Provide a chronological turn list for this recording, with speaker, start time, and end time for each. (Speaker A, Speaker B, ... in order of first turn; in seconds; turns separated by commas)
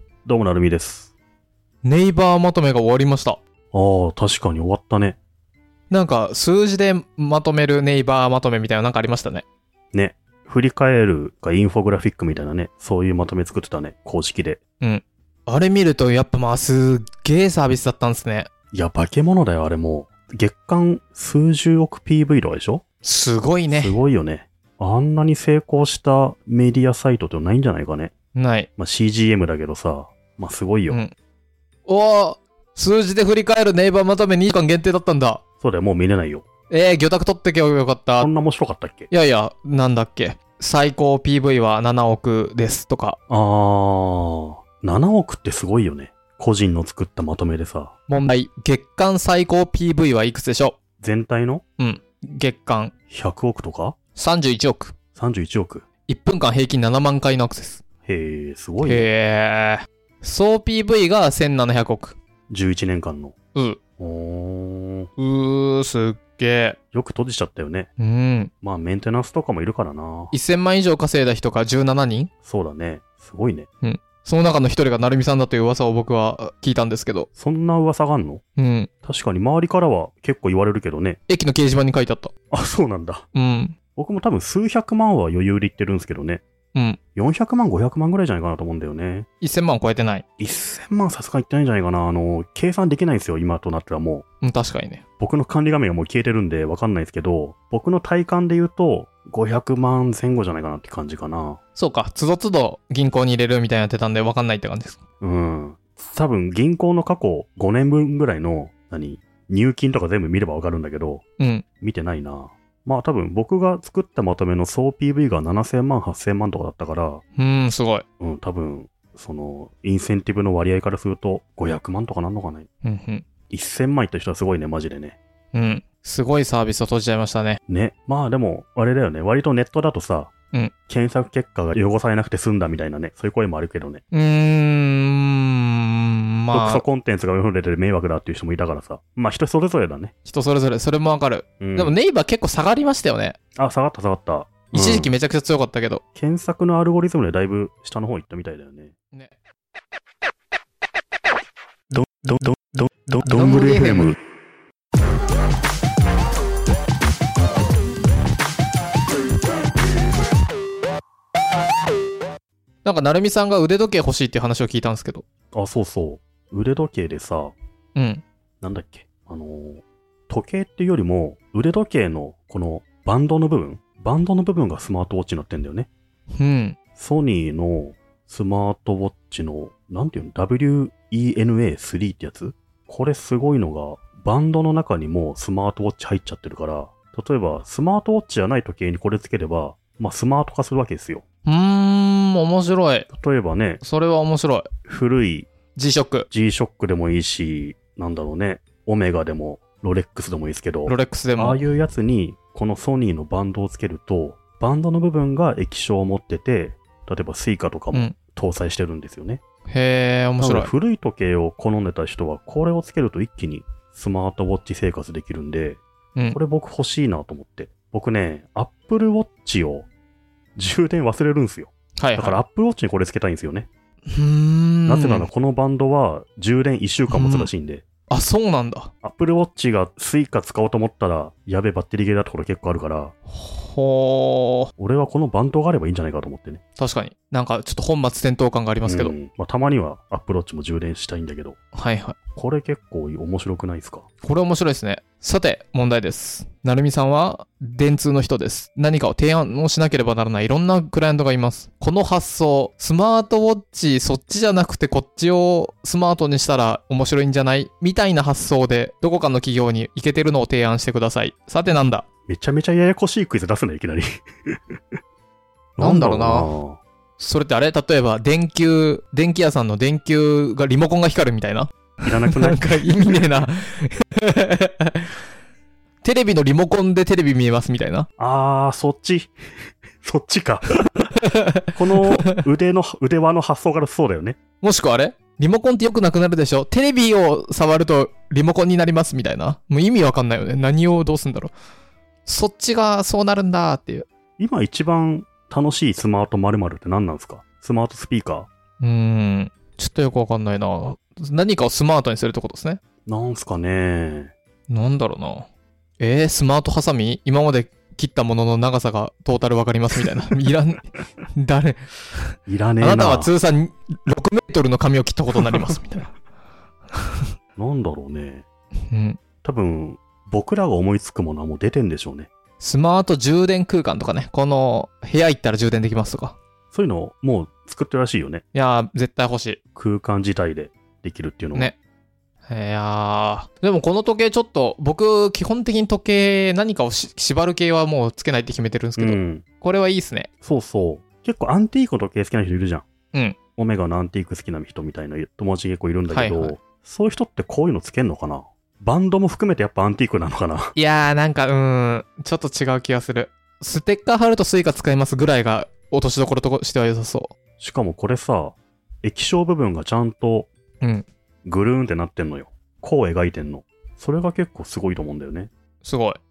Speaker A: 0.2-1.1, Speaker B: 1.8-3.4, Speaker A: 3.7-5.2, Speaker B: 5.9-9.4, Speaker A: 9.9-14.6, Speaker B: 14.8-18.5, Speaker A: 18.7-22.8, Speaker B: 23.0-24.0, Speaker A: 23.7-28.1, Speaker B: 28.3-28.7, Speaker A: 28.8-31.0, Speaker B: 31.9-35.4, Speaker A: 35.6-36.4, Speaker B: 36.7-38.3, Speaker A: 38.2-39.1, Speaker B: 39.1-43.2, Speaker A: 43.3-47.9, Speaker B: 48.1-50.8, Speaker A: 51.0-51.6, Speaker B: 51.8-52.9, Speaker A: 53.1-54.0, Speaker B: 54.1-54.9, Speaker A: 55.1-55.8, Speaker B: 56.1-57.8, Speaker A: 58.0-59.1, Speaker B: 58.8-62.2, Speaker A: 62.5-63.3, Speaker A: 64.0-65.1, Speaker B: 65.2-66.8, Speaker A: 66.9-67.9, Speaker B: 68.0-68.5, Speaker A: 68.6-70.3, Speaker B: 70.3-72.3, Speaker A: 72.4-73.7, Speaker B: 73.8-77.3, Speaker A: 77.3-78.4, Speaker B: 78.6-78.9, Speaker A: 79.0-81.2, Speaker B: 81.3-82.3, Speaker A: 82.5-83.2, Speaker B: 83.3-83.7, Speaker A: 84.0-86.4, Speaker B: 86.7-87.0, Speaker A: 87.2-89.3, Speaker B: 89.4-90.2, Speaker A: 90.4-94.2, Speaker B: 94.4-95.0, Speaker A: 95.2-101.6, Speaker B: 101.8-105.0, Speaker A: 105.2-111.2, Speaker B: 111.4-111.6, Speaker A: 111.8-117.2, Speaker B: 117.4-118.0, Speaker A: 118.2-122.7, Speaker B: 122.8-123.2, Speaker A: 123.5-125.2, Speaker B: 125.5-127.6, Speaker A: 127.7-130.3, Speaker A: 130.9-134.0, Speaker B: 134.1-136.8, Speaker A: 136.5-140.1, Speaker B: 140.2-143.4, Speaker A: 141.6-141.9, Speaker A: 143.6-145.1, Speaker B: 144.7-146.0, Speaker A: 146.1-148.9, Speaker A: 151.9-154.2, Speaker B: 153.2-154.2, Speaker B: 162.8-165.2, Speaker A: 165.5-167.5, Speaker B: 167.9-168.2, Speaker A: 168.6-175.9, Speaker B: 176.3-176.8, Speaker A: 177.0-191.2, Speaker B: 191.4-193.1, Speaker A: 193.1-193.8, Speaker B: 193.8-194.7, Speaker A: 194.8-195.5, Speaker B: 195.7-196.3, Speaker A: 196.3-209.4, Speaker B: 200.8-201.6, Speaker B: 209.7-210.7, Speaker A: 210.4-219.9, Speaker A: 220.6-223.7, Speaker B: 222.0-222.4, Speaker B: 224.1-225.3, Speaker A: 224.9-227.8, Speaker B: 227.1-227.5, Speaker B: 228.1-228.9, Speaker A: 229.0-233.1, Speaker B: 233.3-234.7, Speaker A: 234.8-236.6, Speaker B: 236.8-239.1, Speaker A: 238.8-241.6, Speaker B: 241.7-242.2, Speaker A: 242.3-244.1, Speaker B: 244.2-262.0, Speaker A: 262.3-264.9, Speaker A: 265.8-266.8, Speaker B: 265.8-266.5, Speaker B: 267.2-275.1, Speaker A: 272.0-273.2, Speaker B: 276.0-278.1, Speaker A: 278.2-279.3, Speaker A: 280.0-281.1, Speaker B: 281.2-281.7, Speaker A: 281.7-284.4, Speaker B: 284.6-291.5, Speaker B: 292.2-294.1, Speaker A: 294.4-298.5, Speaker B: 298.8-302.8, Speaker A: 303.1-304.3, Speaker B: 304.7-305.5, Speaker B: 306.0-316.1, Speaker A: 312.5-313.3, Speaker A: 317.6-318.4, Speaker B: 318.9-319.2, Speaker A: 319.4-322.3, Speaker B: 322.6-326.4, Speaker A: 326.7-328.4, Speaker B: 328.5-329.6, Speaker A: 329.8-331.7, Speaker B: 332.5-340.3, Speaker A: 339.0-339.4, Speaker A: 340.4-342.9, Speaker A: 343.6-350.7, Speaker B: 346.1-346.6, Speaker B: 350.7-357.3, Speaker A: 357.6-360.5, Speaker B: 360.8-361.1, Speaker A: 361.4-365.5, Speaker B: 365.8-366.2